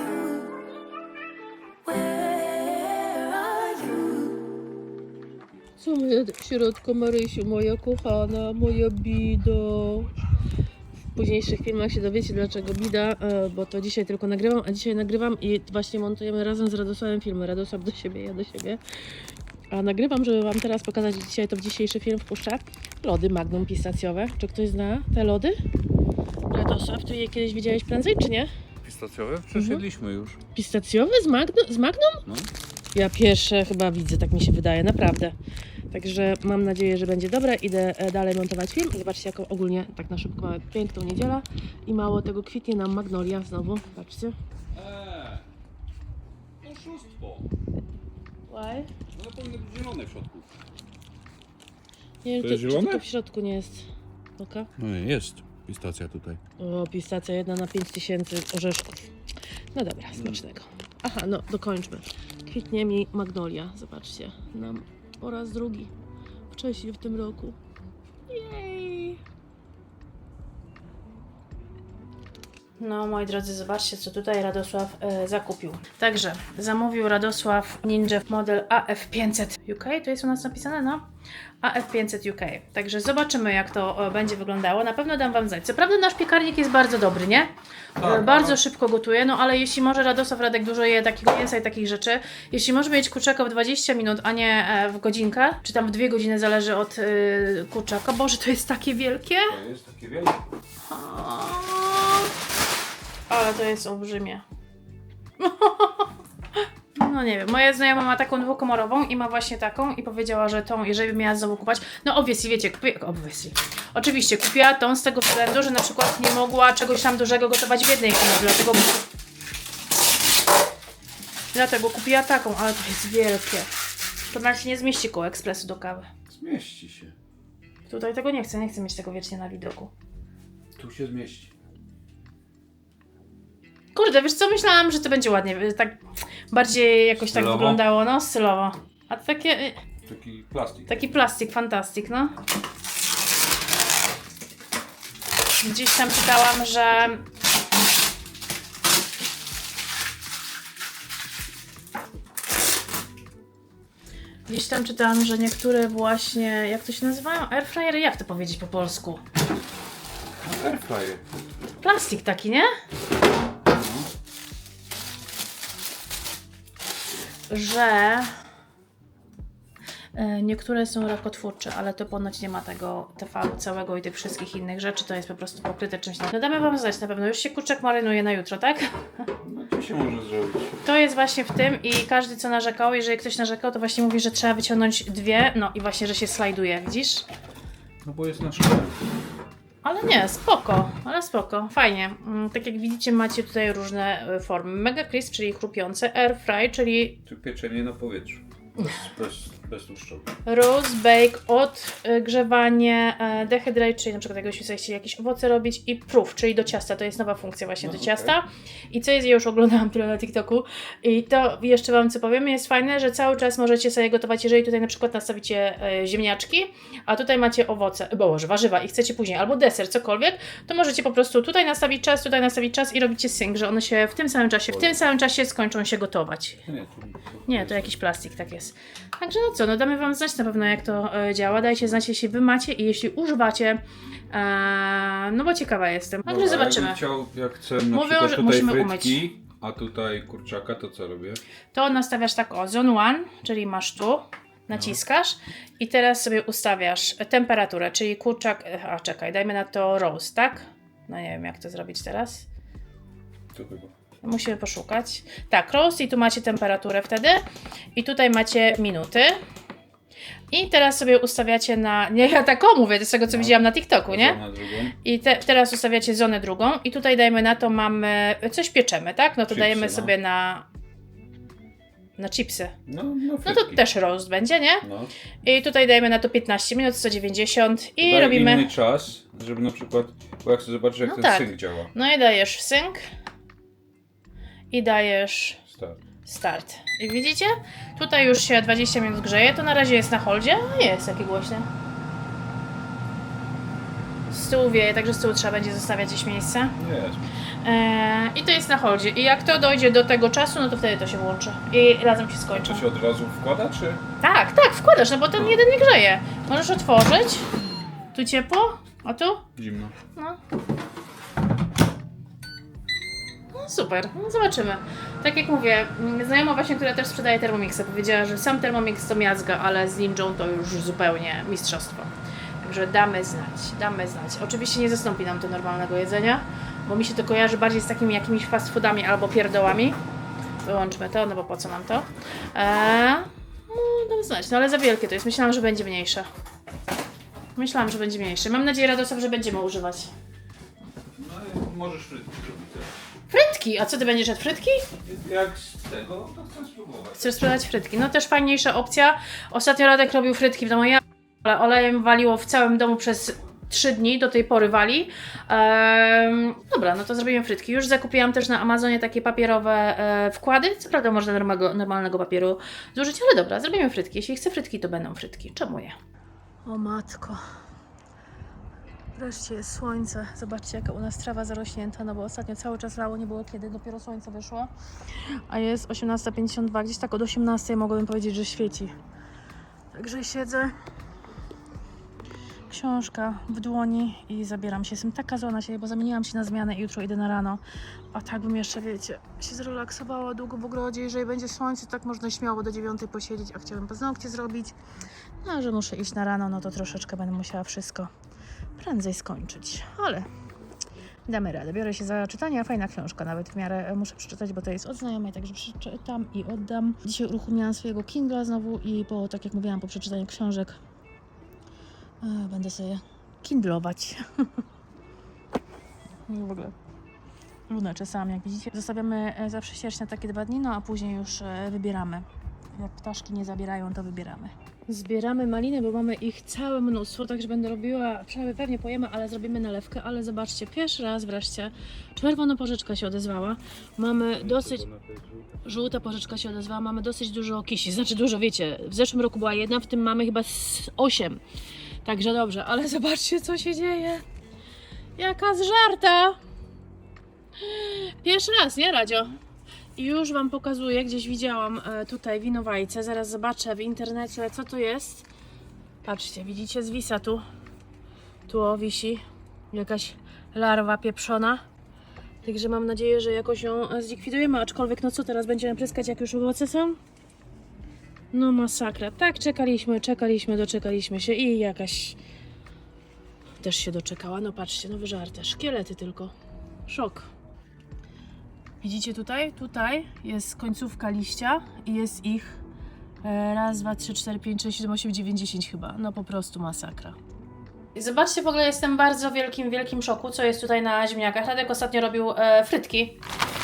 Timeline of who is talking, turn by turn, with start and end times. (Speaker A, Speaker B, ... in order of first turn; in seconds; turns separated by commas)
Speaker A: 5.8-10.1, Speaker A: 11.1-18.8, Speaker A: 19.7-25.6, Speaker A: 26.5-28.5, Speaker B: 28.8-30.4, Speaker A: 29.5-29.8, Speaker A: 30.5-32.2, Speaker B: 32.2-32.5, Speaker A: 32.9-35.3, Speaker A: 35.9-44.4, Speaker B: 44.7-45.4, Speaker B: 46.6-47.5, Speaker A: 48.5-48.9, Speaker B: 49.1-50.5, Speaker A: 52.2-54.7, Speaker B: 52.4-53.0, Speaker B: 54.8-56.4, Speaker A: 56.6-59.1, Speaker A: 59.7-65.9, Speaker B: 60.1-60.4, Speaker A: 66.5-67.6, Speaker A: 68.3-69.2, Speaker A: 72.8-81.0, Speaker A: 81.6-99.6, Speaker B: 88.0-88.6, Speaker B: 99.5-100.4, Speaker A: 100.9-102.3, Speaker A: 103.3-104.4, Speaker A: 105.4-119.0, Speaker A: 121.5-123.7, Speaker A: 124.3-126.1, Speaker B: 126.3-127.1, Speaker A: 127.9-129.9, Speaker B: 130.8-131.5, Speaker A: 133.9-139.8, Speaker B: 137.2-137.8, Speaker B: 140.1-140.9, Speaker A: 140.9-142.3, Speaker A: 145.6-147.2, Speaker A: 154.5-159.2, Speaker B: 160.4-161.2, Speaker A: 161.8-162.7, Speaker B: 163.7-164.1, Speaker A: 167.5-168.3, Speaker A: 170.1-179.3, Speaker B: 179.4-180.7, Speaker A: 180.8-187.2, Speaker B: 188.0-189.0, Speaker A: 189.8-197.2, Speaker B: 197.2-200.3, Speaker A: 200.4-226.7, Speaker B: 207.8-208.4, Speaker B: 224.7-225.0, Speaker B: 226.7-227.9, Speaker A: 227.5-237.0, Speaker B: 236.2-241.4, Speaker A: 237.9-239.2, Speaker A: 241.7-252.4, Speaker B: 244.7-245.0, Speaker B: 253.5-253.9, Speaker A: 254.2-257.4, Speaker A: 257.9-259.4, Speaker A: 260.5-264.4, Speaker B: 263.3-264.9, Speaker A: 264.9-270.6, Speaker B: 269.5-270.1, Speaker A: 272.2-272.8, Speaker B: 272.9-273.8, Speaker A: 273.4-274.8, Speaker B: 274.8-275.1, Speaker A: 275.4-278.7, Speaker B: 278.0-281.9, Speaker A: 281.0-283.0, Speaker A: 284.7-285.6, Speaker B: 285.7-286.0, Speaker A: 286.2-291.7, Speaker A: 294.3-296.8, Speaker B: 296.8-297.3, Speaker A: 297.6-302.8, Speaker B: 302.5-304.0, Speaker A: 304.2-307.5, Speaker B: 305.4-305.6, Speaker A: 308.1-309.4, Speaker B: 309.6-309.9, Speaker A: 313.5-330.0, Speaker A: 330.6-336.3, Speaker A: 337.6-340.1, Speaker B: 341.2-342.9, Speaker A: 343.3-344.9, Speaker B: 345.0-347.4, Speaker A: 347.2-365.9, Speaker A: 366.6-367.4, Speaker A: 369.1-374.7, Speaker A: 375.5-378.9, Speaker A: 379.9-380.7, Speaker A: 382.7-387.6, Speaker A: 388.1-394.7, Speaker A: 395.4-398.1, Speaker A: 398.8-400.3, Speaker A: 401.3-410.8, Speaker A: 412.2-414.6, Speaker A: 416.3-416.7, Speaker A: 417.7-434.8, Speaker B: 434.4-435.6, Speaker A: 435.6-441.4, Speaker A: 442.0-444.2, Speaker A: 445.2-446.4, Speaker A: 447.6-449.4, Speaker A: 449.9-455.2, Speaker A: 456.0-457.4, Speaker A: 458.5-461.6, Speaker A: 462.4-467.0, Speaker A: 468.3-472.2, Speaker A: 473.6-476.3, Speaker A: 476.9-477.3, Speaker A: 478.8-482.6, Speaker A: 483.2-487.2, Speaker A: 487.9-493.2